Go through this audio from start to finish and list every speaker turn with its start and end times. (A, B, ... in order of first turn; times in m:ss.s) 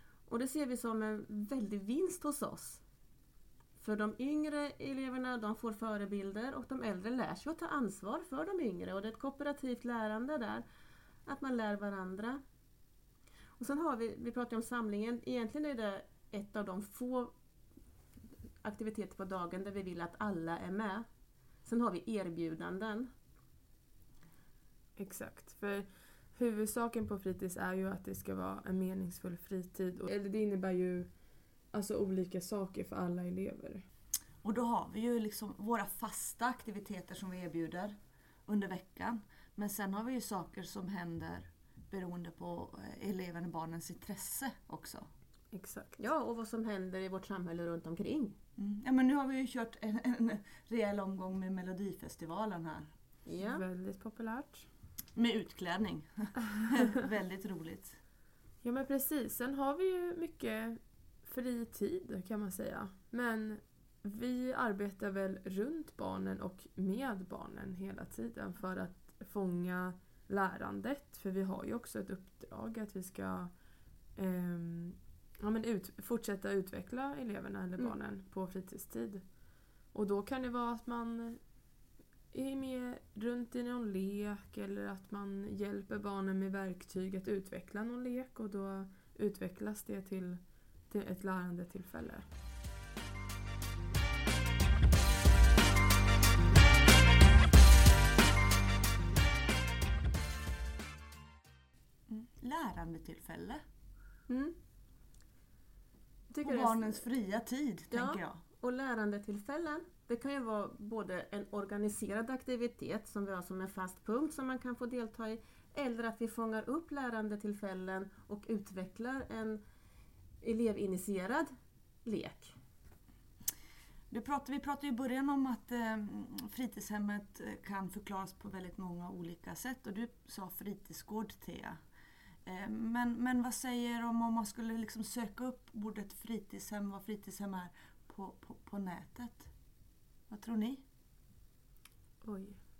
0:00.3-0:02.8 A
0:03.8-0:10.6 A
0:11.2-0:12.4 A
0:13.6-0:17.3 A
0:18.6-0:21.0 A
0:21.6-0:23.1 A
0:25.0-0:31.1 B
0:31.7-0:33.8 B
0:34.4-0:37.9 C
0:38.5-0:45.1 C
0:45.5-0:46.0 B
0:46.0-0:48.3 A
0:48.6-0:52.9 C
0:53.2-0:53.6 A
0:53.4-0:54.7 B
0:55.2-0:58.0 C
0:58.6-1:13.5 B
1:14.2-1:19.3 B
1:19.9-1:21.4 B
1:22.3-1:32.2 B
1:42.1-1:43.6 C
1:46.4-1:48.5 C
1:46.4-1:46.9 A
1:47.9-1:59.6 A
2:00.4-2:01.5 A
2:02.0-2:02.5 A
2:04.1-2:11.8 C
2:12.4-2:19.5 C
2:20.3-2:20.8 C
2:22.2-2:22.6 B